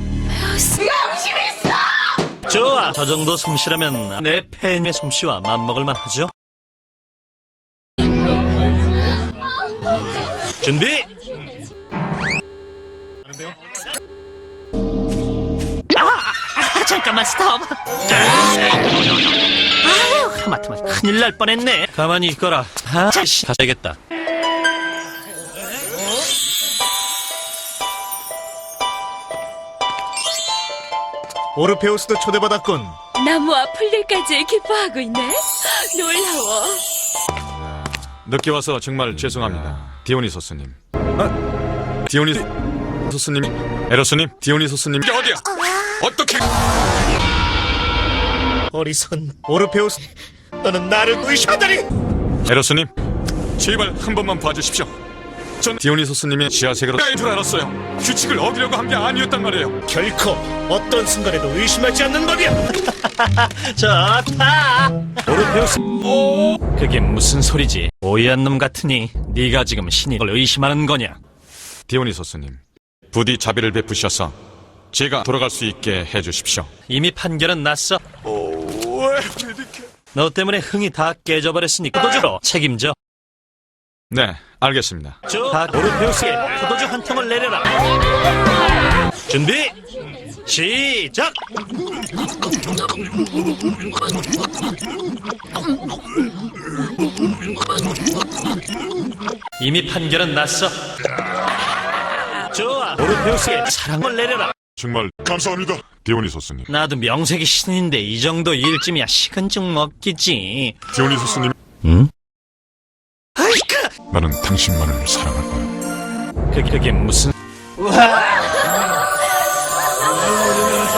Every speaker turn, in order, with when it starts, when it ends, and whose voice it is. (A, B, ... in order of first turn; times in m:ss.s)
0:00.4-0:01.5 A
0:02.4-0:06.3 B
0:10.6-0:11.1 B
0:15.9-0:17.8 B
0:19.8-0:24.0 B
0:31.6-0:33.0 C
0:33.2-0:36.8 A
0:37.3-0:41.2 D
0:42.1-0:42.4 D
0:43.1-0:46.4 D
0:48.7-0:50.1 C
0:50.6-0:51.8 C
0:52.4-0:52.9 D
0:53.6-0:54.9 D
0:55.6-0:59.8 D
0:59.9-1:02.5 C
1:02.8-1:06.0 B
1:06.7-1:11.2 B
1:11.9-1:14.3 D
1:14.9-1:16.7 D
1:16.9-1:18.0 B
1:18.2-1:19.5 D
1:20.1-1:22.9 B
1:24.1-1:25.2 D
1:25.3-1:27.7 B
1:29.3-1:29.8 B
1:30.4-1:31.4 B
1:39.6-1:40.8 B
1:42.4-1:44.5 B
1:44.8-1:46.7 D
1:45.6-1:46.0 E
1:46.7-1:50.8 B
1:50.9-1:51.5 D
1:51.8-1:52.1 B
1:53.4-1:53.9 B
1:54.1-1:55.7 E
1:56.5-1:57.3 B
1:57.8-1:58.6 B